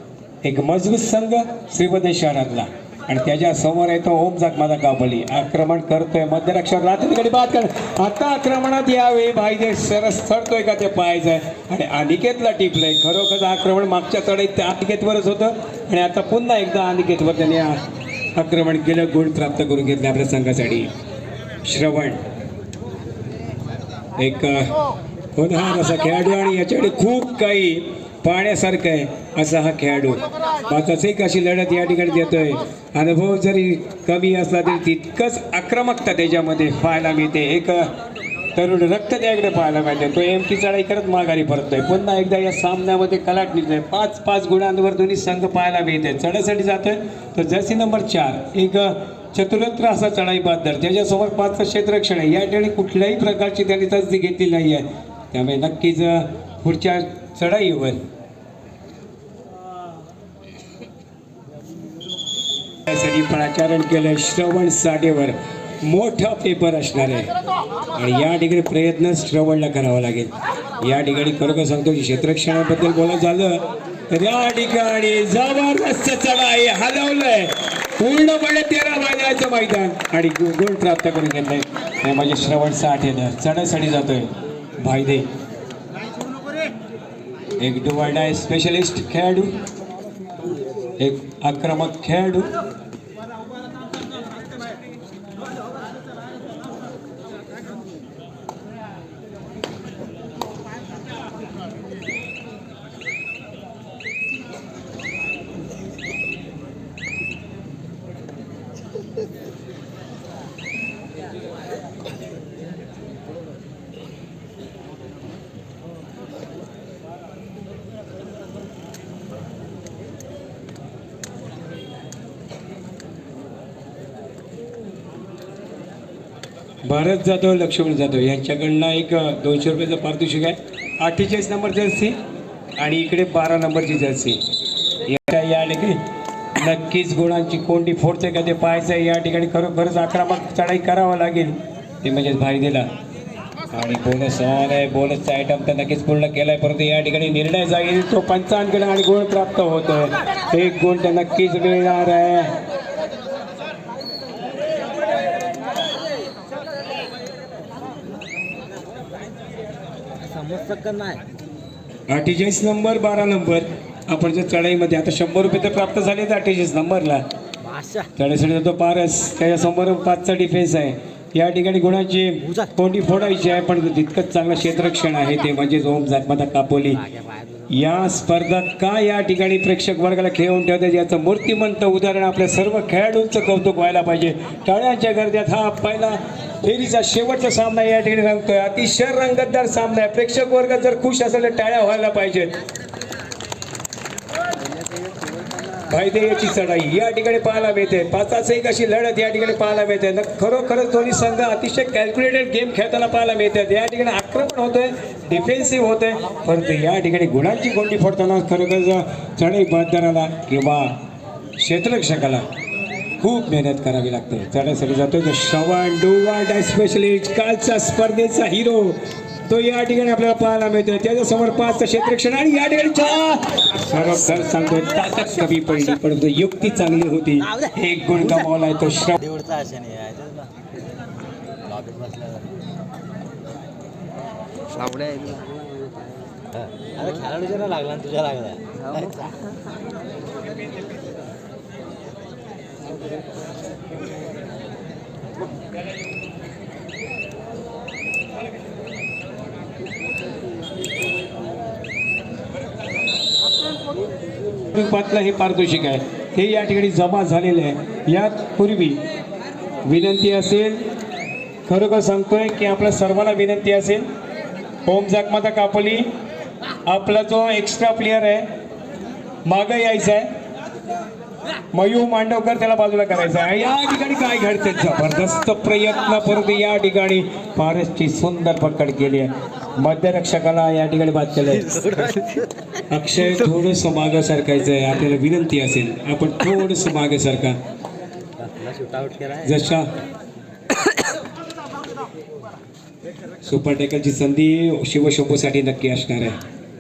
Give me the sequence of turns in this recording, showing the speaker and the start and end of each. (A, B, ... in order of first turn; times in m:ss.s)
0:00.4-0:17.8 A
0:18.4-0:20.9 A
0:21.6-0:22.2 A
0:24.2-0:24.8 A
0:25.4-0:37.9 A
0:38.6-0:58.0 A
1:02.9-1:07.3 A
1:08.0-1:25.3 A
1:27.6-1:29.6 A
1:31.0-1:32.5 A
2:06.8-2:12.2 A
2:12.8-2:14.4 A
2:15.0-2:16.0 A
2:16.6-2:22.9 A
2:23.7-2:32.6 A
2:40.2-2:41.2 B
2:42.1-2:47.2 A
2:47.6-2:48.1 B
2:48.2-2:57.0 A
2:57.1-2:57.7 B
2:57.7-3:12.6 A
3:15.8-3:31.0 A
3:31.6-3:32.4 A
3:33.2-3:49.2 A
3:49.2-3:50.5 B
3:51.6-3:52.6 B
3:56.6-3:59.3 B
4:14.7-4:19.0 A
4:19.9-4:20.8 A
4:21.7-4:24.1 A
4:24.8-4:26.1 A
4:26.9-4:28.5 A
4:29.4-4:30.3 A
4:31.7-4:41.9 A
4:41.8-4:42.4 B
4:42.9-4:47.6 A
4:48.4-4:49.6 B
4:49.4-4:49.9 A
4:53.4-4:56.4 A